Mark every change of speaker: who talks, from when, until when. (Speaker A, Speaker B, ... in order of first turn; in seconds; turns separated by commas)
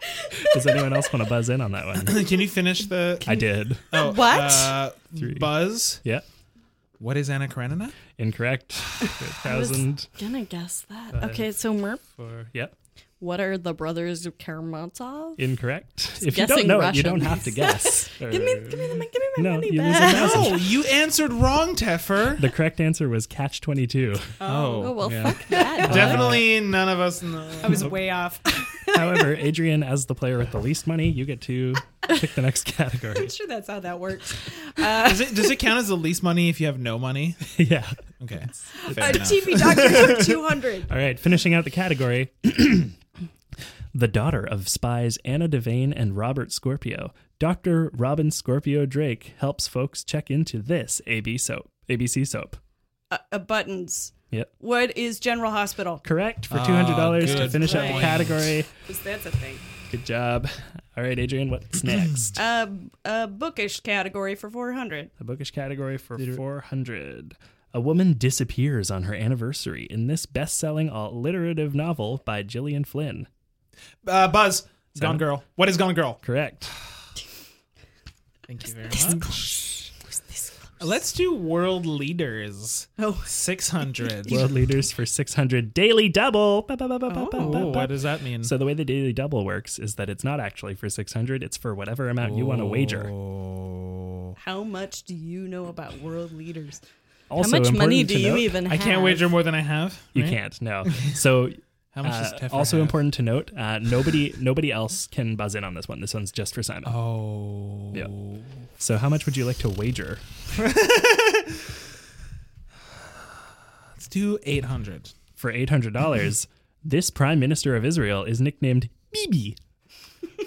Speaker A: 0.4-2.4, Speaker B: 2.0-6.0, Speaker A: 3.2-3.9, Speaker C: 3.9-4.8, Speaker A: 5.2-6.2, Speaker B: 7.0-8.0, Speaker A: 8.2-10.1, Speaker C: 9.4-12.0, Speaker A: 11.1-11.4, Speaker A: 12.2-12.7, Speaker C: 13.2-15.4, Speaker A: 15.4-20.6, Speaker C: 16.2-20.6, Speaker B: 20.1-22.5, Speaker A: 22.4-24.4, Speaker D: 24.4-24.9, Speaker B: 24.4-28.1, Speaker C: 24.8-26.2, Speaker A: 25.0-26.5, Speaker D: 27.6-29.3, Speaker A: 28.9-33.3, Speaker D: 33.1-35.6, Speaker B: 34.9-37.5, Speaker A: 37.5-38.0, Speaker B: 38.2-40.4, Speaker D: 38.8-40.9, Speaker A: 38.9-39.3, Speaker A: 40.9-42.9, Speaker A: 43.9-52.6, Speaker D: 53.1-56.0, Speaker A: 56.0-58.7, Speaker B: 56.5-58.6, Speaker D: 57.2-58.2, Speaker D: 58.9-59.6, Speaker A: 59.9-62.4, Speaker D: 62.4-65.1, Speaker A: 65.2-73.3, Speaker B: 74.0-76.2, Speaker A: 75.0-75.2, Speaker A: 76.2-76.7, Speaker B: 78.5-79.5, Speaker C: 79.1-79.9, Speaker B: 80.8-84.5, Speaker D: 83.0-83.3, Speaker A: 84.3-93.1, Speaker D: 87.1-87.8, Speaker B: 87.4-88.5, Speaker B: 92.2-94.3, Speaker D: 94.4-96.8, Speaker A: 97.3-98.6, Speaker C: 97.4-99.3, Speaker B: 98.7-101.2, Speaker A: 100.1-107.0, Speaker B: 101.9-103.0, Speaker B: 106.8-108.4, Speaker A: 108.8-110.2, Speaker B: 110.5-111.6, Speaker B: 114.0-115.1, Speaker A: 115.4-119.6